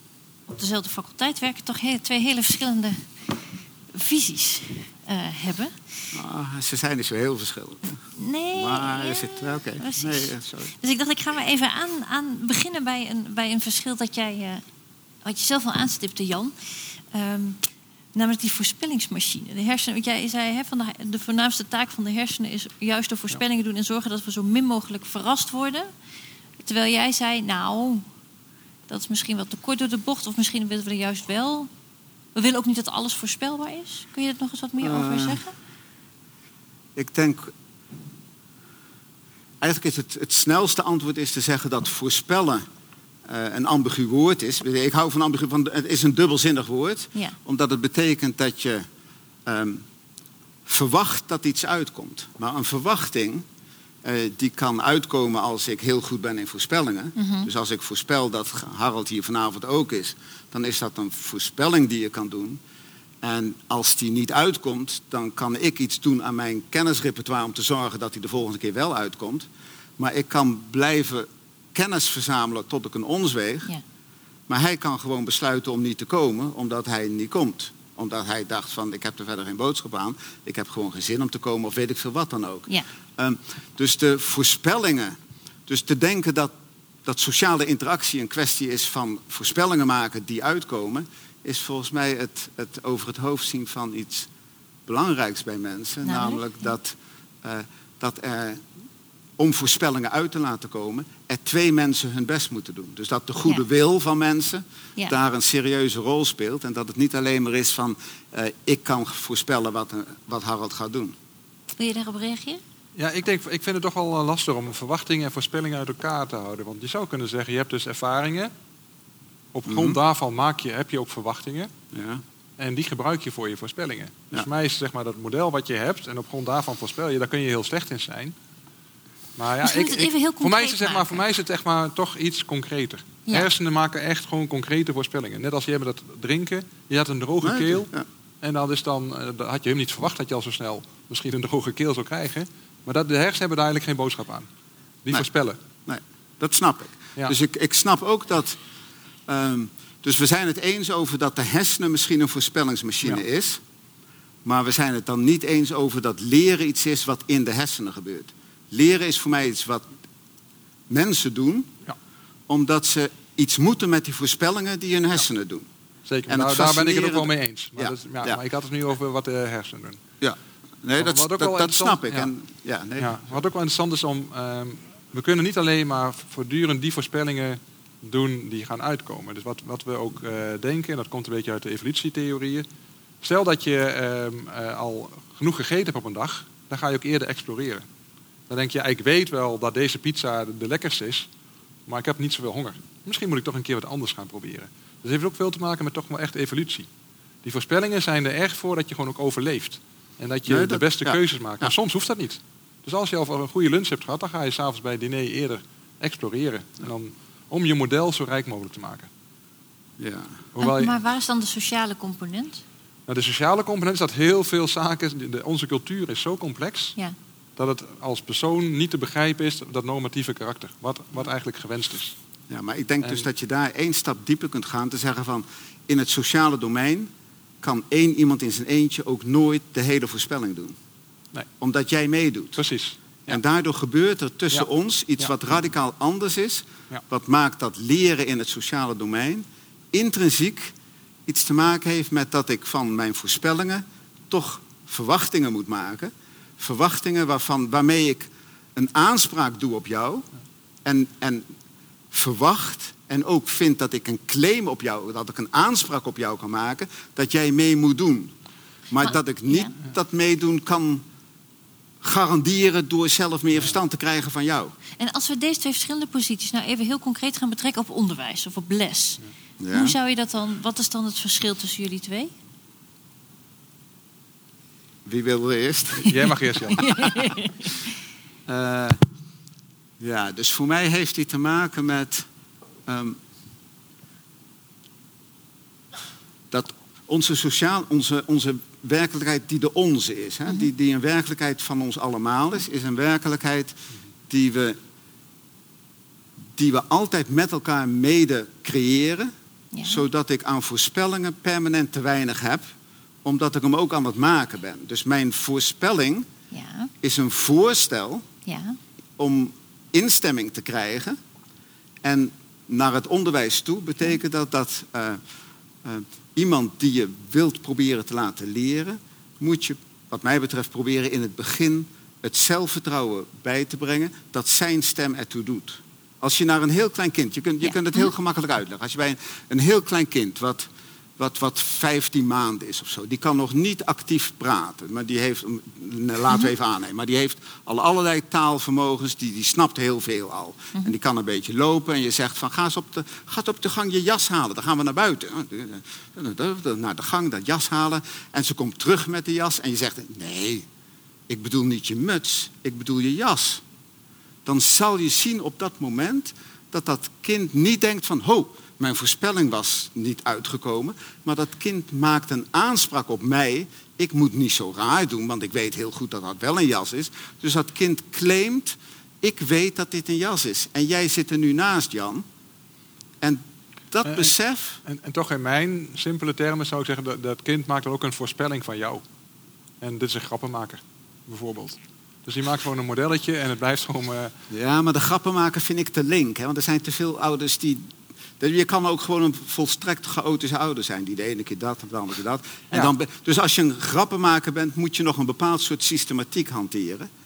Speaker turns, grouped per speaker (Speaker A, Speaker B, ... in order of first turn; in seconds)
Speaker A: 0.5-3.1, 3.9-5.8, 8.2-14.6, 15.2-16.5, 17.1-25.9, 26.6-28.0, 28.9-31.7, 32.3-35.5, 57.1-57.5, 96.0-96.4, 111.8-112.6, 129.6-131.2, 210.6-212.6, 259.0-259.7, 265.0-272.3, 276.7-277.8, 299.7-300.0, 306.5-306.9, 308.4-308.8, 327.6-328.1
Speaker B: 6.1-8.0, 8.5-10.7, 34.8-35.4, 37.0-37.5, 39.6-42.6, 43.2-48.9, 49.5-49.8, 50.6-53.4, 54.0-62.6, 63.2-73.7, 74.5-86.5, 87.0-94.3, 94.9-98.6, 99.4-111.2, 119.7-120.0, 121.9-122.2, 137.4-138.1, 145.8-148.6, 149.3-153.6, 154.4-159.9, 160.9-161.7, 162.5-165.7, 166.3-168.4, 170.2-173.2, 200.5-201.7, 210.0-210.4, 222.5-227.1, 227.6-230.8, 231.6-232.6, 233.2-240.7, 241.3-250.2, 250.8-251.5, 252.1-258.3, 258.9-261.0, 262.0-264.7, 269.6-269.9, 275.1-276.9, 278.5-279.0, 280.0-282.2, 282.9-283.2, 286.5-294.8, 296.6-299.3, 299.8-302.6, 303.2-306.3, 307.0-308.2, 309.2-311.2, 312.0-315.2, 315.8-350.6, 351.3-353.6, 354.4-372.2, 373.2-374.8, 384.5-397.1
Speaker C: 113.0-118.5, 119.5-121.7, 122.6-128.3, 129.4-137.9, 138.4-144.5, 145.0-145.6, 166.1-170.0, 171.0-172.3, 173.0-182.7, 183.2-187.9, 188.5-191.3, 191.8-196.9, 197.4-209.1, 210.5-211.0, 213.1-216.9, 217.6-222.2, 232.6-233.4, 276.0-276.8, 374.0-379.0, 379.8-384.3